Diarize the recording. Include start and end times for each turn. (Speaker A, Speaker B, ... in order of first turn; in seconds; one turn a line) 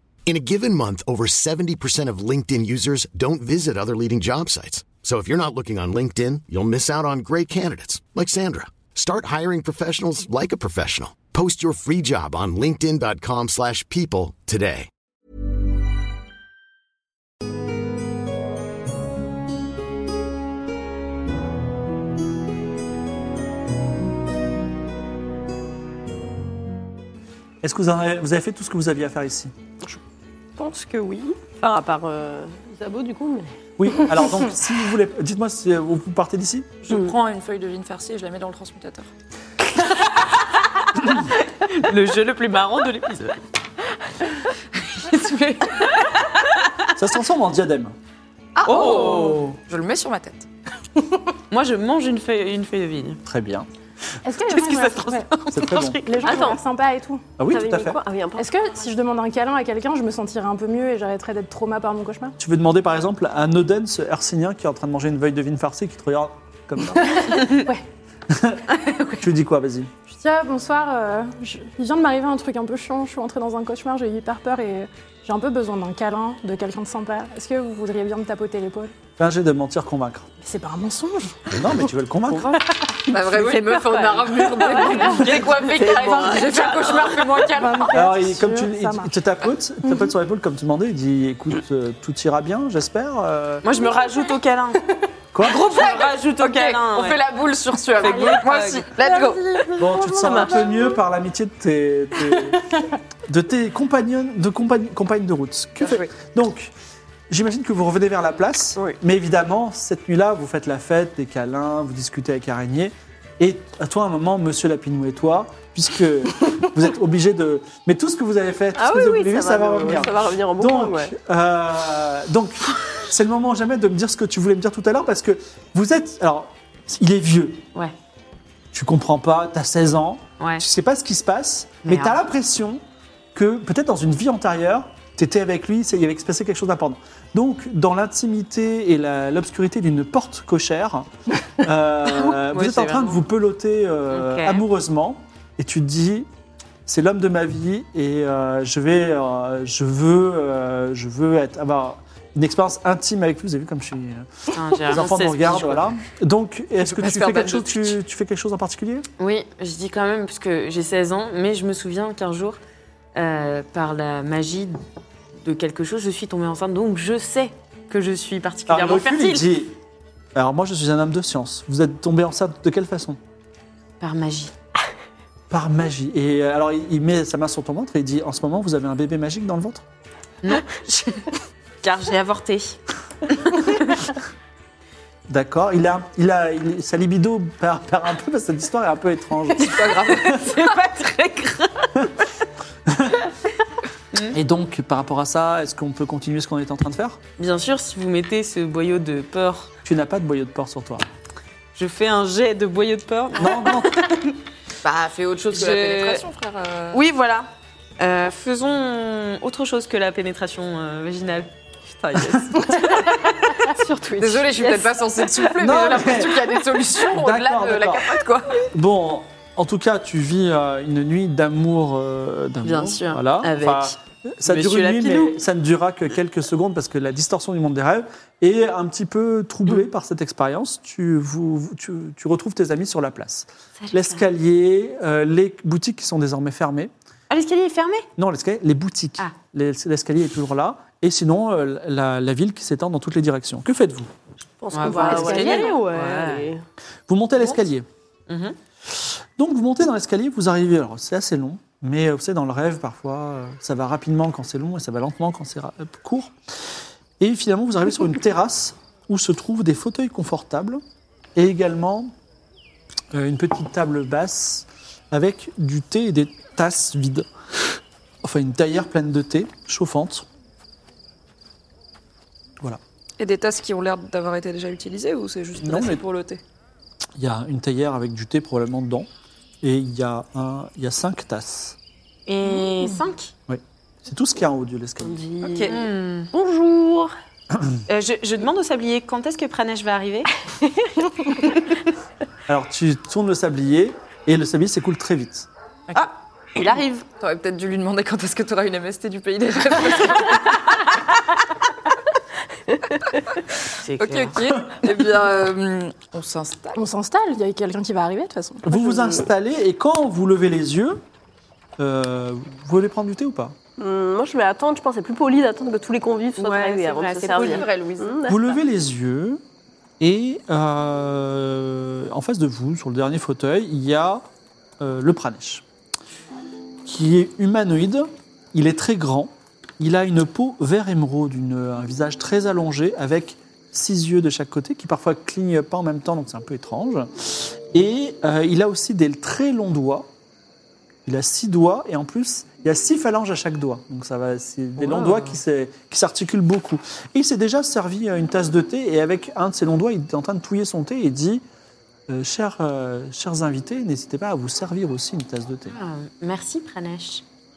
Speaker A: 0.3-14.9
Speaker B: 27.6-29.5
Speaker C: 30.6-33.6
Speaker B: 33.8-36.7
Speaker D: 36.8-39.1
Speaker E: 40.0-40.3
Speaker E: 41.1-43.4
Speaker D: 44.8-45.9
Speaker B: 47.0-48.0
Speaker D: 48.6-50.5
Speaker E: 48.7-49.5
Speaker E: 51.5-53.2
Speaker B: 53.2-53.7
Speaker F: 54.2-57.2
Speaker E: 54.5-56.4
Speaker B: 55.5-56.0
Speaker C: 56.2-56.6
Speaker B: 57.4-58.0
Speaker C: 57.5-58.5
Speaker F: 58.4-62.4
Speaker B: 62.4-67.2
Speaker F: 67.1-67.8
Speaker B: 68.3-69.9
Speaker F: 70.1-78.9
Speaker B: 79.2-80.3
Speaker F: 80.4-83.2
Speaker B: 81.5-82.6
Speaker D: 82.9-88.0
Speaker F: 84.5-86.6
Speaker C: 84.7-87.4
Speaker F: 87.4-89.2
Speaker B: 87.9-93.7
Speaker E: 93.6-97.3
Speaker B: 95.3-95.8
Speaker D: 95.5-99.5
Speaker E: 98.0-98.9
Speaker F: 98.0-98.4
Speaker F: 99.0-101.0
Speaker B: 99.8-106.7
Speaker C: 100.2-100.9
Speaker D: 105.8-106.1
Speaker B: 107.3-127.6
Speaker C: 118.8-121.1
Speaker B: 128.7-132.8
Speaker E: 130.4-130.7
Speaker E: 131.8-132.2
Speaker B: 133.3-146.3
Speaker E: 142.1-143.2
Speaker E: 144.1-144.6
Speaker B: 146.9-159.1
Speaker E: 154.5-156.0
Speaker D: 156.9-157.9
Speaker E: 159.2-162.6
Speaker E: 163.2-164.8
Speaker E: 165.4-169.5
Speaker B: 168.7-169.8
Speaker B: 170.3-173.2
Speaker E: 174.0-174.5
Speaker B: 175.5-179.8
Speaker E: 180.4-181.3
Speaker E: 181.8-184.1
Speaker B: 185.3-190.3
Speaker D: 189.6-190.8
Speaker E: 189.7-192.2
Speaker B: 192.9-193.2
Speaker E: 194.1-194.4
Speaker B: 194.3-197.2
Speaker E: 197.4-199.7
Speaker B: 199.8-201.1
Speaker E: 201.8-204.3
Speaker B: 203.4-204.0
Speaker D: 204.8-207.0
Speaker E: 205.5-206.2
Speaker E: 206.9-207.5
Speaker E: 208.0-212.4
Speaker C: 212.2-214.8
Speaker D: 214.2-218.7
Speaker B: 215.3-218.2
Speaker B: 218.7-236.9
Speaker E: 222.6-223.9
Speaker E: 224.4-225.4
Speaker E: 233.8-234.2
Speaker E: 237.3-238.1
Speaker B: 238.2-244.1
Speaker C: 244.6-246.6
Speaker E: 244.7-246.5
Speaker F: 245.1-245.8
Speaker B: 247.1-247.9
Speaker E: 248.3-248.6
Speaker B: 248.9-260.8
Speaker B: 261.4-262.1
Speaker B: 263.1-270.3
Speaker D: 273.2-276.4
Speaker B: 275.6-276.0
Speaker B: 277.2-279.1
Speaker B: 279.6-281.8
Speaker E: 282.3-283.3
Speaker B: 283.5-285.2
Speaker C: 285.0-287.1
Speaker D: 285.5-285.8
Speaker E: 285.7-286.3
Speaker E: 287.9-290.4
Speaker B: 292.5-295.5
Speaker E: 296.6-297.0
Speaker D: 297.2-300.6
Speaker E: 303.8-304.5
Speaker D: 304.0-306.8
Speaker F: 306.8-309.1
Speaker B: 308.7-311.0
Speaker B: 311.8-313.6
Speaker C: 313.8-318.6
Speaker E: 316.4-317.7
Speaker D: 317.2-318.1
Speaker B: 318.3-319.4
Speaker B: 320.0-324.3
Speaker B: 324.8-325.6
Speaker B: 326.9-340.1
Speaker B: 341.1-351.4
Speaker C: 344.9-345.2
Speaker B: 352.1-355.8
Speaker E: 355.7-357.2